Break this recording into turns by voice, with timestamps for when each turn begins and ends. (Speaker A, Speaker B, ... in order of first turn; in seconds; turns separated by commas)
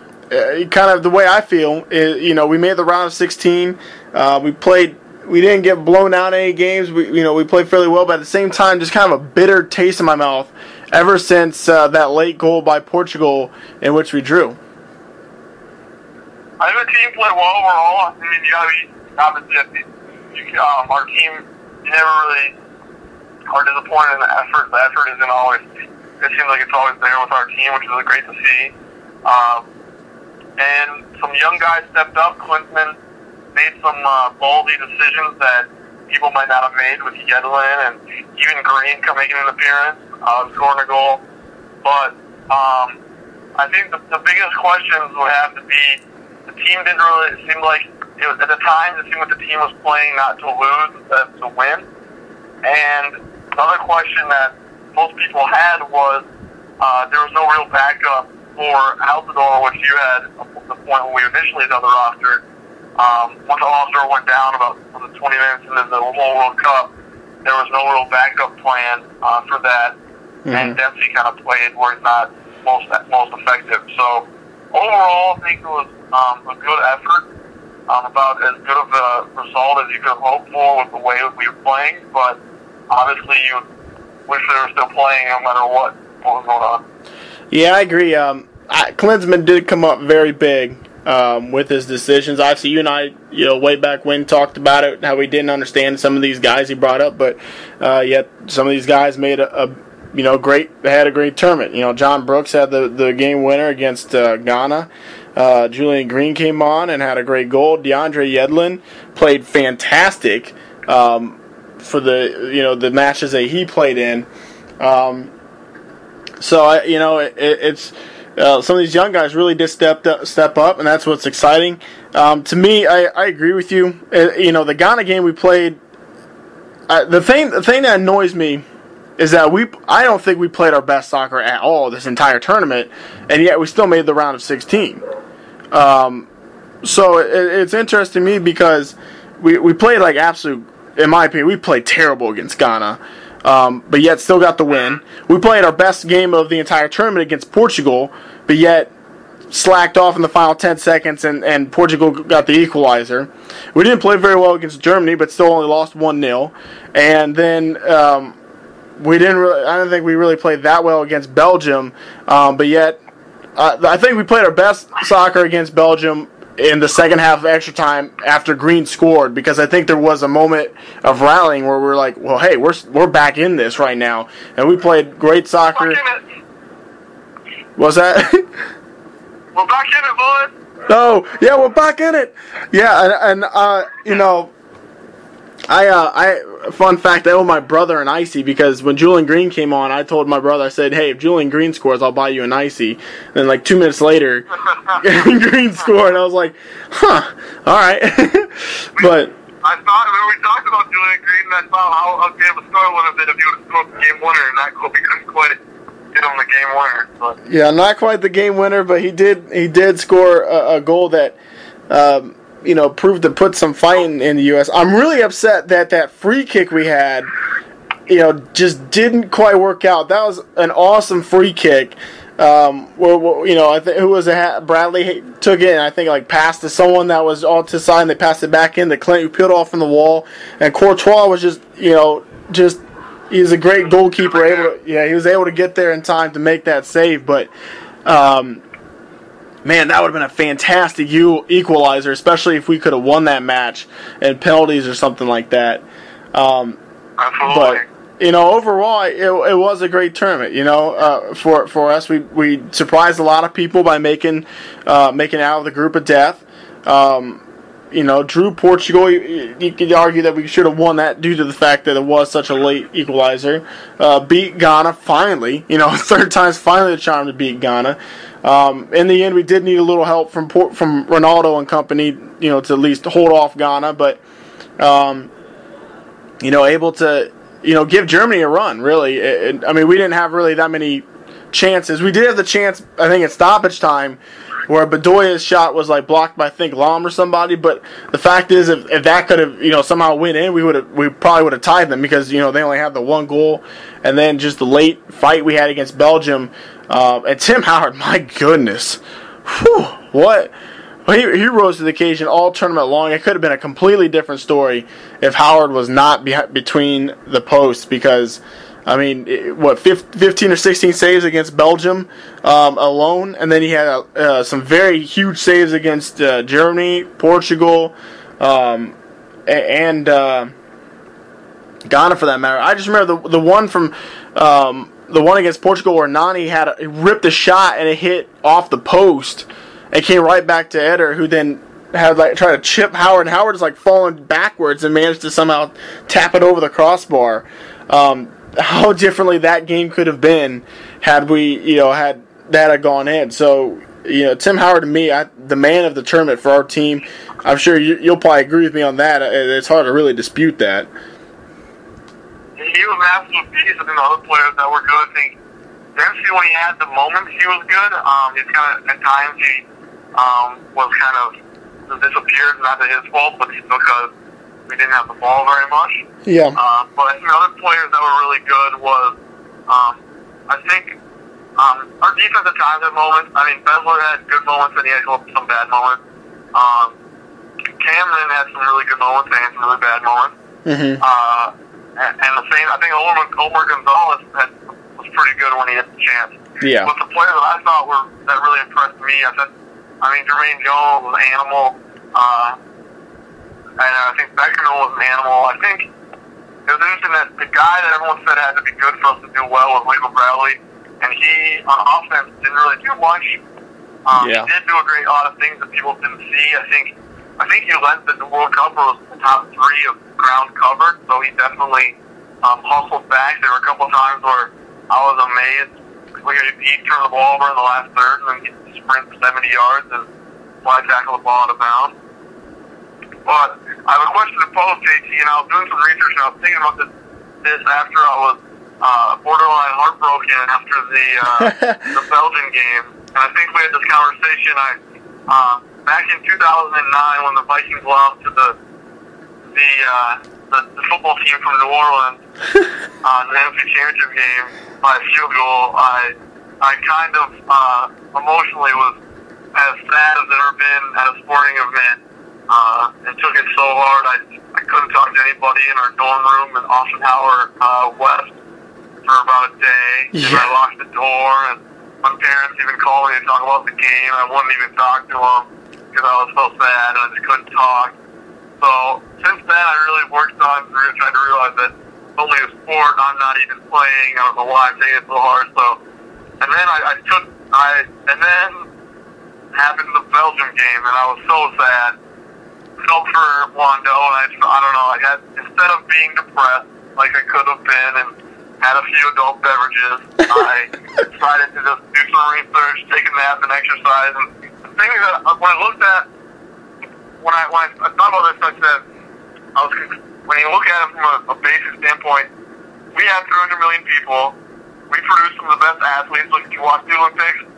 Speaker A: 0.3-14.6, Speaker B: 16.6-22.6, Speaker B: 23.5-25.7, Speaker B: 26.2-28.7, Speaker B: 29.2-29.7, Speaker B: 30.6-33.0, Speaker B: 33.5-41.2, Speaker B: 41.8-43.0, Speaker B: 43.6-51.9, Speaker B: 52.6-56.2, Speaker B: 56.8-62.4, Speaker B: 63.0-70.0, Speaker A: 70.5-70.8, Speaker B: 70.5-77.3, Speaker B: 77.9-83.7, Speaker B: 84.3-86.8, Speaker A: 87.5-114.3, Speaker A: 114.8-115.3, Speaker A: 116.4-125.8, Speaker A: 126.9-128.6, Speaker A: 129.2-135.0, Speaker A: 135.7-136.3, Speaker A: 136.8-148.9, Speaker A: 149.5-158.4, Speaker A: 159.0-163.0, Speaker A: 163.6-176.0, Speaker B: 175.8-176.2, Speaker A: 177.8-178.5, Speaker B: 179.5-180.5, Speaker A: 180.9-184.5, Speaker A: 185.7-199.3, Speaker B: 199.0-205.6, Speaker B: 206.1-207.4, Speaker A: 207.4-211.4, Speaker A: 211.9-217.3, Speaker A: 218.1-237.5, Speaker A: 238.1-238.6, Speaker A: 239.7-246.8, Speaker B: 247.2-247.8, Speaker A: 247.5-274.2, Speaker A: 274.8-275.3, Speaker A: 276.4-300.5, Speaker A: 301.1-318.9, Speaker A: 319.5-320.5, Speaker A: 321.9-350.9, Speaker B: 352.6-355.4, Speaker B: 356.0-361.3, Speaker B: 361.9-364.1, Speaker B: 364.7-369.2, Speaker A: 366.3-366.6, Speaker B: 369.7-371.0, Speaker B: 371.6-376.0, Speaker B: 376.5-377.0, Speaker B: 377.8-380.3, Speaker A: 380.7-381.0, Speaker B: 381.0-392.6, Speaker A: 386.6-386.9, Speaker B: 393.8-395.9, Speaker B: 396.7-403.4, Speaker B: 404.1-420.1, Speaker A: 404.2-404.5, Speaker B: 420.6-421.9, Speaker B: 423.2-426.9, Speaker B: 427.4-434.8, Speaker A: 431.4-431.9, Speaker B: 435.3-438.6, Speaker B: 439.5-442.2, Speaker B: 443.0-449.0, Speaker B: 449.5-458.4, Speaker B: 459.1-468.0, Speaker A: 460.1-460.5, Speaker B: 468.6-475.8, Speaker B: 476.4-478.7, Speaker B: 479.5-482.0, Speaker B: 482.8-496.1, Speaker B: 497.2-498.8, Speaker B: 499.6-502.3, Speaker B: 502.9-504.4, Speaker B: 504.9-507.4